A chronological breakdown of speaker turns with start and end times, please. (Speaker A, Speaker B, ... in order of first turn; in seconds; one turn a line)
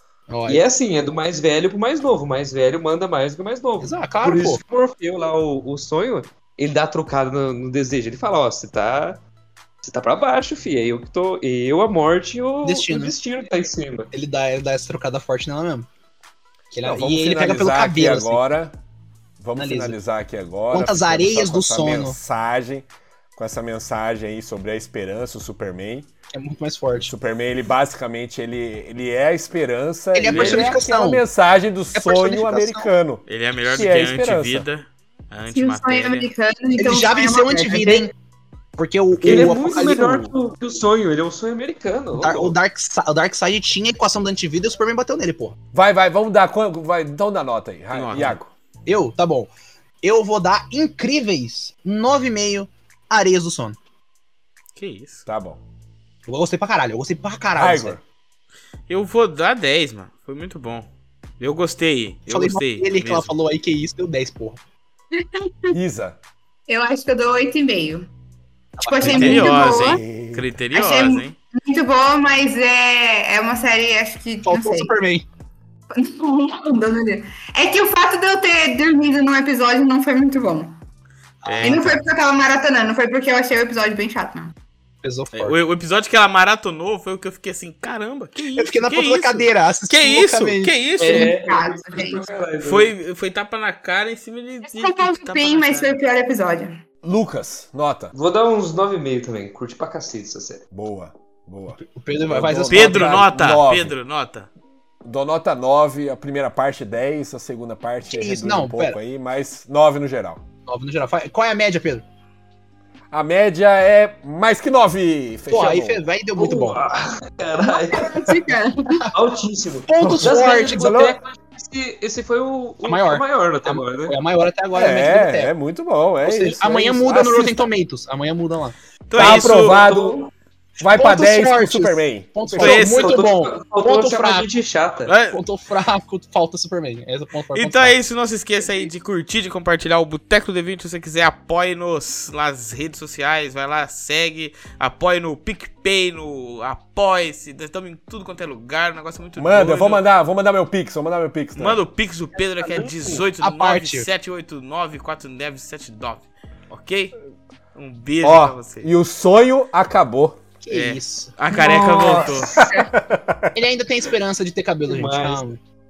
Speaker A: 0.3-0.6
Speaker B: 0.5-9.2
Speaker A: 3.8-4.6
Speaker B: 9.8-14.1
Speaker A: 12.6-13.1
Speaker A: 14.1-15.9
Speaker A: 16.7-18.4
Speaker C: 16.8-18.7
Speaker C: 19.4-26.1
Speaker A: 19.6-20.0
Speaker A: 20.7-22.2
Speaker A: 26.3-27.1
Speaker C: 27.0-34.6
Speaker A: 30.1-31.2
Speaker B: 30.4-30.7
Speaker A: 31.9-32.9
Speaker D: 33.3-36.3
Speaker E: 35.5-38.1
Speaker A: 36.8-38.1
Speaker A: 38.8-40.3
Speaker C: 39.2-39.5
Speaker B: 39.2-42.5
Speaker A: 42.2-45.6
Speaker C: 45.7-48.5
Speaker D: 47.9-48.4
Speaker A: 48.9-49.5
Speaker A: 50.0-53.8
Speaker D: 54.7-55.2
Speaker C: 55.3-55.6
Speaker A: 56.3-58.0
Speaker C: 57.5-58.0
Speaker D: 58.9-63.3
Speaker A: 62.3-64.6
Speaker E: 65.2-65.7
Speaker C: 65.7-66.2
Speaker E: 66.7-68.1
Speaker A: 68.8-69.6
Speaker E: 68.8-70.0
Speaker D: 69.0-71.3
Speaker C: 69.6-70.5
Speaker E: 70.7-74.9
Speaker A: 74.5-75.2
Speaker E: 75.9-80.8
Speaker A: 81.4-82.0
Speaker D: 81.4-82.0
Speaker E: 81.6-84.5
Speaker A: 85.0-85.6
Speaker D: 85.3-91.3
Speaker A: 88.5-90.7
Speaker B: 91.0-92.9
Speaker E: 91.0-92.2
Speaker D: 92.6-96.0
Speaker E: 94.6-96.8
Speaker C: 97.0-98.1
Speaker B: 98.1-100.6
Speaker C: 100.7-103.9
Speaker A: 101.9-103.3
Speaker D: 102.7-104.5
Speaker C: 105.0-110.4
Speaker A: 108.1-109.0
Speaker A: 110.7-112.0
Speaker C: 113.1-116.0
Speaker A: 115.5-116.8
Speaker B: 116.3-118.3
Speaker E: 117.6-119.1
Speaker B: 119.1-124.2
Speaker A: 119.9-121.0
Speaker C: 120.0-121.2
Speaker A: 122.8-125.5
Speaker C: 124.7-127.7
Speaker A: 126.2-128.8
Speaker D: 129.1-129.9
Speaker C: 129.1-130.2
Speaker B: 129.2-130.3
Speaker C: 130.8-132.6
Speaker A: 130.9-134.5
Speaker D: 132.6-133.3
Speaker B: 132.6-135.1
Speaker D: 135.1-135.4
Speaker A: 135.3-138.0
Speaker D: 137.5-150.0
Speaker A: 138.6-138.9
Speaker C: 149.4-151.8
Speaker D: 151.6-157.1
Speaker A: 152.6-154.1
Speaker B: 152.8-153.2
Speaker D: 157.7-158.9
Speaker C: 158.2-160.4
Speaker A: 160.6-161.3
Speaker D: 160.7-162.5
Speaker B: 161.5-162.6
Speaker E: 162.2-162.9
Speaker C: 162.6-163.6
Speaker A: 163.5-165.6
Speaker B: 164.8-165.4